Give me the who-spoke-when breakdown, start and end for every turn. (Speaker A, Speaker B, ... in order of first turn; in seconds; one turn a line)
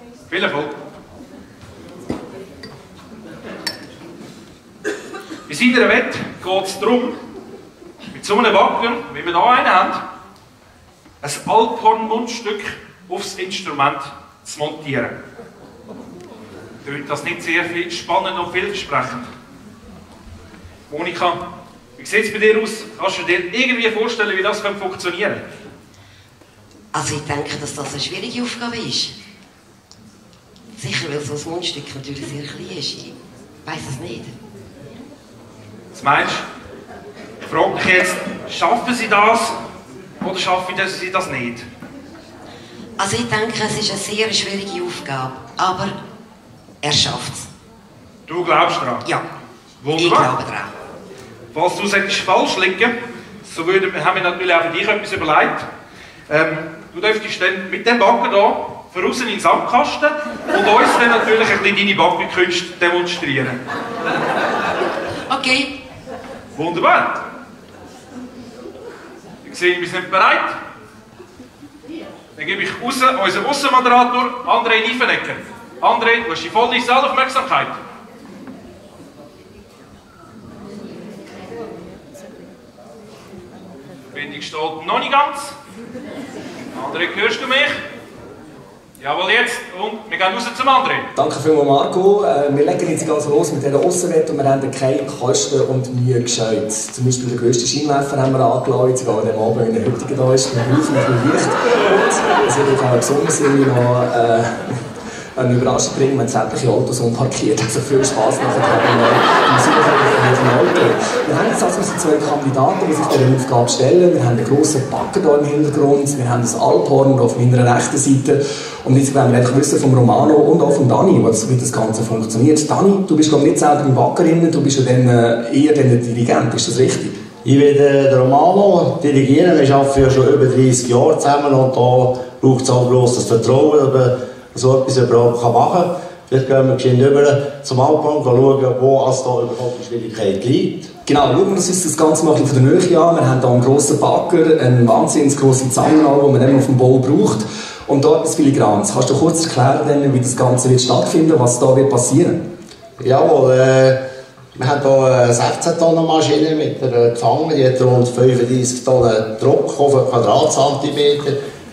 Speaker A: 0.3-0.7
Speaker A: 5.5-7.2
Speaker A: 8.1-10.0
Speaker A: 11.2-15.2
Speaker A: 16.8-19.3
Speaker A: 20.9-21.4
Speaker A: 22.0-25.4
Speaker B: 27.0-29.1
Speaker B: 30.8-34.4
Speaker A: 35.9-36.5
Speaker A: 37.5-39.6
Speaker A: 40.2-41.6
Speaker B: 43.0-45.9
Speaker B: 46.8-47.5
Speaker A: 48.3-49.0
Speaker A: 49.8-50.3
Speaker B: 50.0-50.7
Speaker A: 51.5-52.9
Speaker A: 53.4-55.6
Speaker A: 56.3-63.6
Speaker B: 65.3-65.7
Speaker A: 66.5-67.1
Speaker A: 69.4-70.5
Speaker A: 72.3-77.8
Speaker A: 84.1-85.5
Speaker A: 86.8-87.8
Speaker A: 89.0-91.1
Speaker C: 91.2-104.5
Speaker C: 105.4-127.2
Speaker D: 127.4-140.9
Speaker C: 141.1-152.4
Speaker D: 153.0-154.0
Speaker D: 154.6-161.4